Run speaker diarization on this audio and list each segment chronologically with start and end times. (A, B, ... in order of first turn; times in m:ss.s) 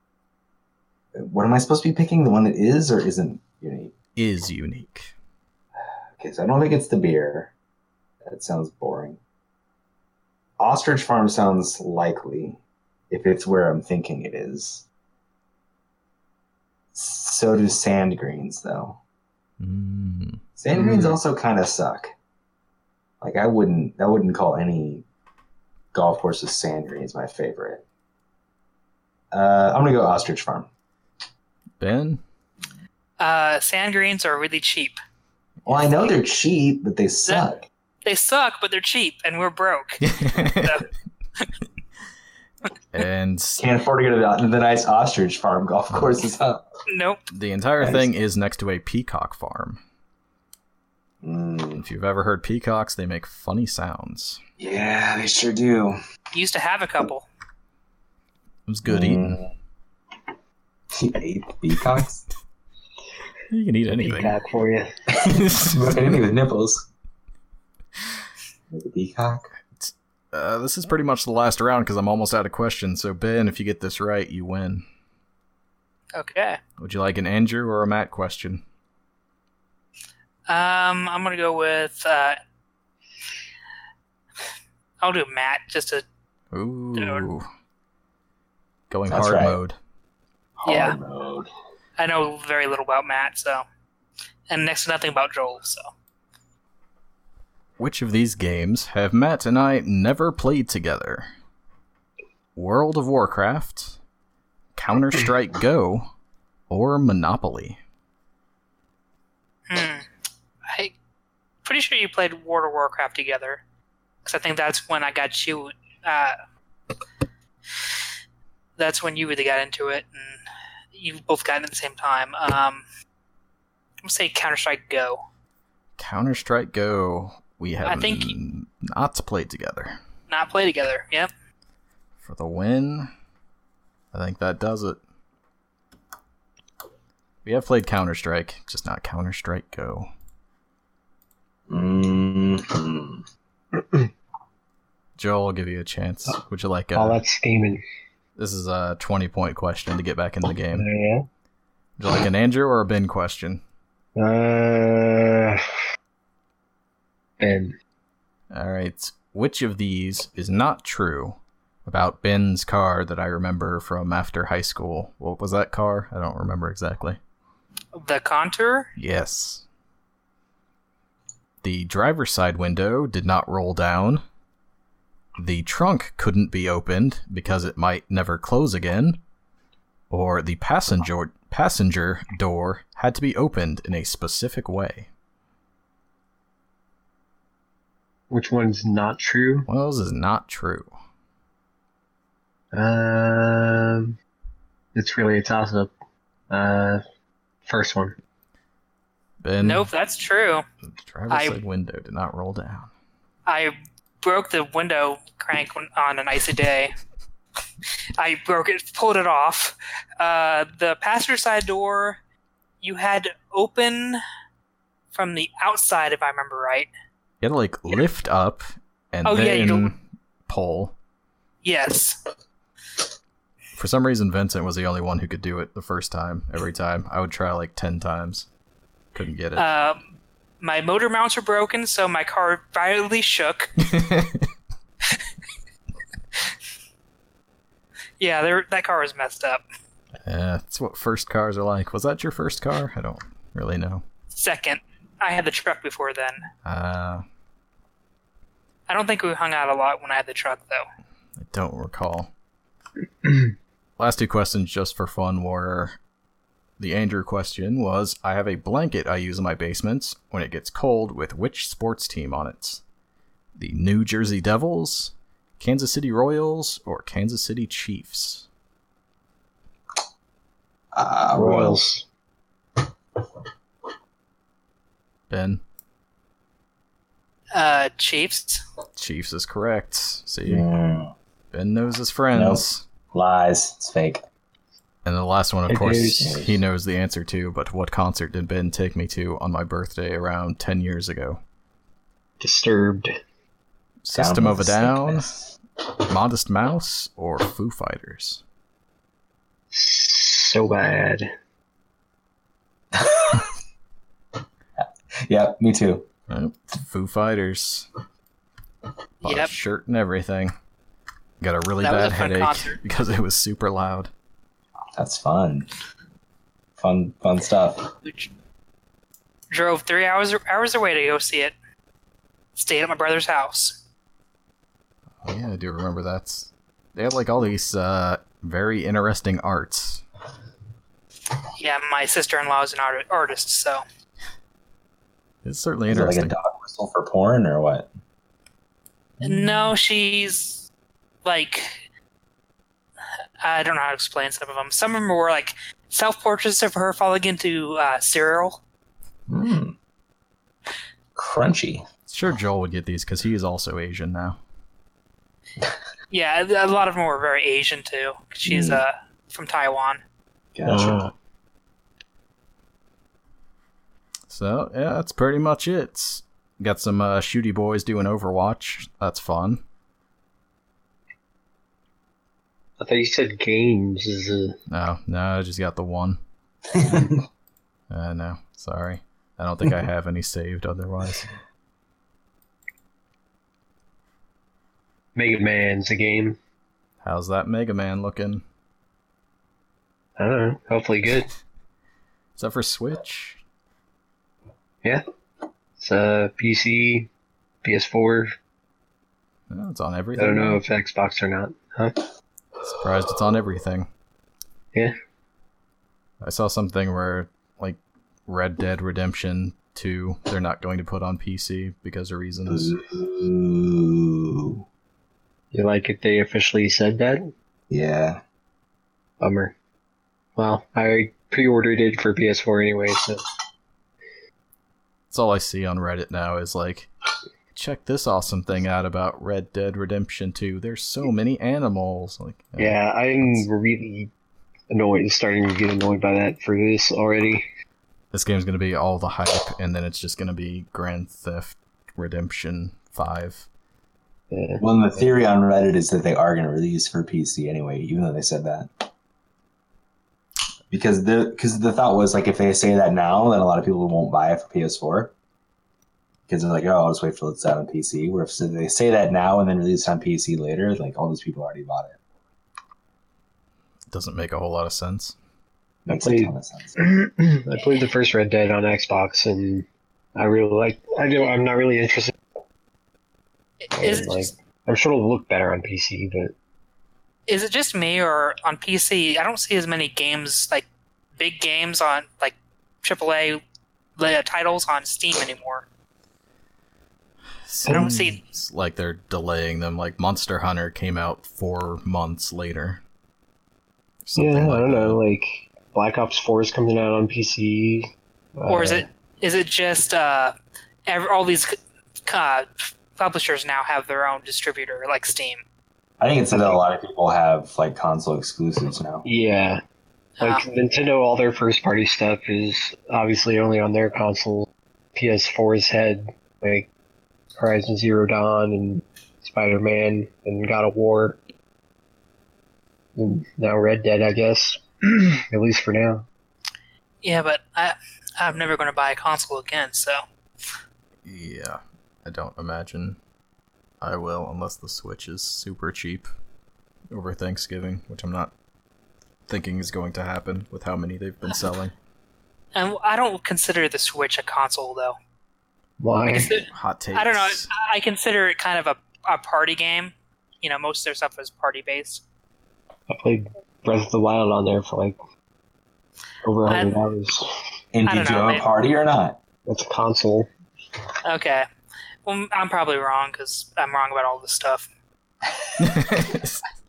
0:01.2-0:03.9 A
0:04.2-0:05.1 B
0:06.2-0:07.5 A
0:08.2-0:09.2 A
0:10.6-0:12.6 A
0:13.1-0:14.8 A
0:16.9-0:19.0 A
0:19.6-0:20.4 B
0:20.6-0:22.1 A
0:20.7-0:21.1 C
0:23.2-0:25.0 A
0:25.9-0:27.8 A
0:29.3-0:30.7 A
0:31.8-0:32.2 B
0:33.2-0:35.0 D
0:35.6-0:37.6 A
0:38.0-0:40.9 D
0:40.0-0:40.8 B
0:42.9-0:43.6 B
0:43.6-0:46.6 A
0:46.9-0:47.2 D
0:47.3-0:49.8 B
0:47.8-0:48.1 A
0:51.2-0:51.8 A
0:51.8-0:54.4 B
0:54.6-0:56.0 A
0:56.3-0:57.2 D
0:58.7-0:59.4 B
0:58.9-0:59.5 A
1:00.9-1:02.2 A
1:03.5-1:04.4 B
1:04.0-1:04.9 C
1:05.1-1:06.9 A
1:05.2-1:06.2 B
1:08.7-1:09.5 A
1:09.8-1:14.8 B
1:16.1-1:16.6 D
1:16.8-1:18.6 B
1:20.5-1:22.4 D
1:25.0-1:26.0 D
1:26.5-1:27.5 B
1:27.0-1:27.3 D
1:28.9-1:29.8 B
1:29.1-1:29.6 A
1:30.6-1:31.5 A
1:30.6-1:31.0 D
1:32.0-1:33.6 D
1:34.5-1:35.8 D
1:37.8-1:41.3 B
1:42.6-1:44.0 B
1:44.7-1:46.1 B
1:46.7-1:47.8 B
1:49.7-1:50.0 D
1:50.7-1:50.9 D
1:51.6-1:53.6 D
1:54.2-1:56.4 D
1:58.8-2:00.4 D
2:00.9-2:02.8 D
2:04.0-2:05.2 D
2:06.0-2:10.0 B
2:07.8-2:08.3 D
2:10.3-2:11.3 D
2:12.2-2:13.1 B
2:14.1-2:15.0 B
2:17.4-2:20.1 B
2:21.7-2:23.2 A
2:23.8-2:24.1 C
2:25.2-2:27.2 B
2:26.9-2:27.8 C
2:28.4-2:30.9 B
2:30.7-2:31.3 C
2:32.0-2:33.6 B
2:34.2-2:35.6 C
2:37.4-2:37.7 C
2:38.5-2:47.2 B
2:48.0-2:48.9 D
2:49.0-2:49.6 B
2:51.6-2:54.2 B
2:55.4-2:59.2 B
3:00.1-3:05.1 B
3:08.3-3:09.7 C
3:09.7-3:10.9 B
3:12.7-3:14.1 C
3:14.9-3:15.9 C
3:16.5-3:17.0 C
3:17.6-3:18.2 C
3:19.4-3:19.9 B
3:19.6-3:20.6 D
3:20.9-3:22.9 B
3:21.3-3:21.6 D
3:23.4-3:26.9 D
3:28.2-3:32.2 D
3:32.8-3:34.2 D
3:35.1-3:36.9 D
3:37.4-3:40.9 B
3:39.2-3:39.9 D
3:41.6-3:42.2 D
3:43.8-3:48.5 B
3:49.1-3:49.7 B
3:49.6-3:50.0 D
3:50.6-3:53.7 D
3:53.8-3:54.5 B
3:58.2-3:59.6 D
4:00.2-4:04.0 B
4:04.3-4:06.5 D
4:06.6-4:07.2 B
4:08.9-4:10.8 D
4:11.4-4:12.3 B
4:14.0-4:16.0 B
4:16.8-4:22.8 B
4:23.6-4:28.5 B
4:30.9-4:31.8 A
4:31.4-4:32.0 C
4:35.3-4:35.6 B
4:37.5-4:38.6 D
4:39.0-4:40.6 B
4:40.5-4:41.1 A
4:41.5-4:42.8 B
4:42.3-4:44.2 A
4:45.0-4:51.4 B
4:45.7-4:46.4 C
4:46.2-4:46.6 A
4:52.4-4:53.1 C
4:54.0-4:55.3 B
4:54.1-4:55.6 A
4:56.1-4:58.4 B
4:59.7-5:01.3 C
5:02.9-5:03.5 A
5:05.2-5:06.1 A
5:06.3-5:07.9 B
5:09.2-5:10.5 B
5:09.2-5:09.5 D
5:11.4-5:14.1 B
5:11.8-5:12.8 D
5:15.0-5:15.7 A
5:16.8-5:17.9 A
5:18.0-5:18.3 D
5:19.5-5:21.6 D
5:22.6-5:23.8 D
5:25.2-5:30.0 B
5:31.5-5:33.8 D
5:35.4-5:36.3 B
5:35.9-5:37.9 A
5:39.2-5:40.6 D
5:41.2-5:41.8 D
5:43.4-5:48.6 D
5:49.3-5:49.8 A
5:51.2-5:51.8 A
5:52.1-5:54.4 B
5:56.1-6:00.0 D
5:58.4-5:58.8 A
6:00.5-6:01.1 A
6:00.7-6:01.1 C
6:04.3-6:09.6 B
6:12.8-6:14.6 C
6:14.7-6:16.2 B
6:16.7-6:17.2 A
6:17.9-6:21.3 B
6:25.1-6:26.4 C
6:27.0-6:28.4 B
6:30.2-6:31.3 C
6:32.4-6:33.4 B
6:35.8-6:37.1 C
6:37.6-6:38.3 C
6:39.5-6:40.6 B
6:40.2-6:42.1 C
6:42.6-6:43.9 B
6:46.2-6:52.7 B
6:52.5-6:54.6 A
6:55.5-6:57.3 C
6:57.7-6:58.2 A
6:59.2-6:59.5 C
7:00.4-7:03.2 C
7:05.1-7:06.9 B
7:07.5-7:13.4 B
7:12.6-7:14.1 C
7:14.7-7:17.4 C
7:18.1-7:23.5 B
7:24.3-7:25.1 C
7:24.6-7:28.9 A
7:30.7-7:35.1 A
7:36.3-7:42.0 A
7:43.9-7:45.2 B
7:45.8-7:46.8 A
7:45.9-7:52.1 C
7:53.6-7:54.3 D
7:53.8-7:56.3 C
7:57.3-8:00.6 D
8:01.2-8:03.4 D
8:04.0-8:05.6 D
8:07.4-8:12.8 B
8:07.6-8:07.9 C
8:07.7-8:08.2 D
8:14.0-8:15.0 B
8:14.2-8:18.8 C
8:18.5-8:20.3 D
8:20.8-8:25.4 D
8:26.0-8:29.0 A
8:26.3-8:26.6 C
8:29.0-8:29.6 C
8:30.2-8:36.7 C
8:37.4-8:41.2 C
8:43.0-8:46.1 C
8:47.0-8:50.0 D
8:51.0-8:53.0 B
8:53.8-8:56.1 B
8:56.9-8:58.3 B
8:59.3-9:01.7 B
9:02.5-9:05.0 D
9:05.8-9:06.3 C
9:06.1-9:12.0 D
9:06.4-9:07.5 B
9:12.9-9:15.0 C
9:16.2-9:17.2 C
9:16.5-9:16.7 D
9:17.7-9:19.2 A
9:17.8-9:18.4 D
9:19.5-9:20.3 C
9:21.0-9:21.4 D
9:22.0-9:24.7 D
9:25.3-9:25.8 A
9:25.6-9:26.4 B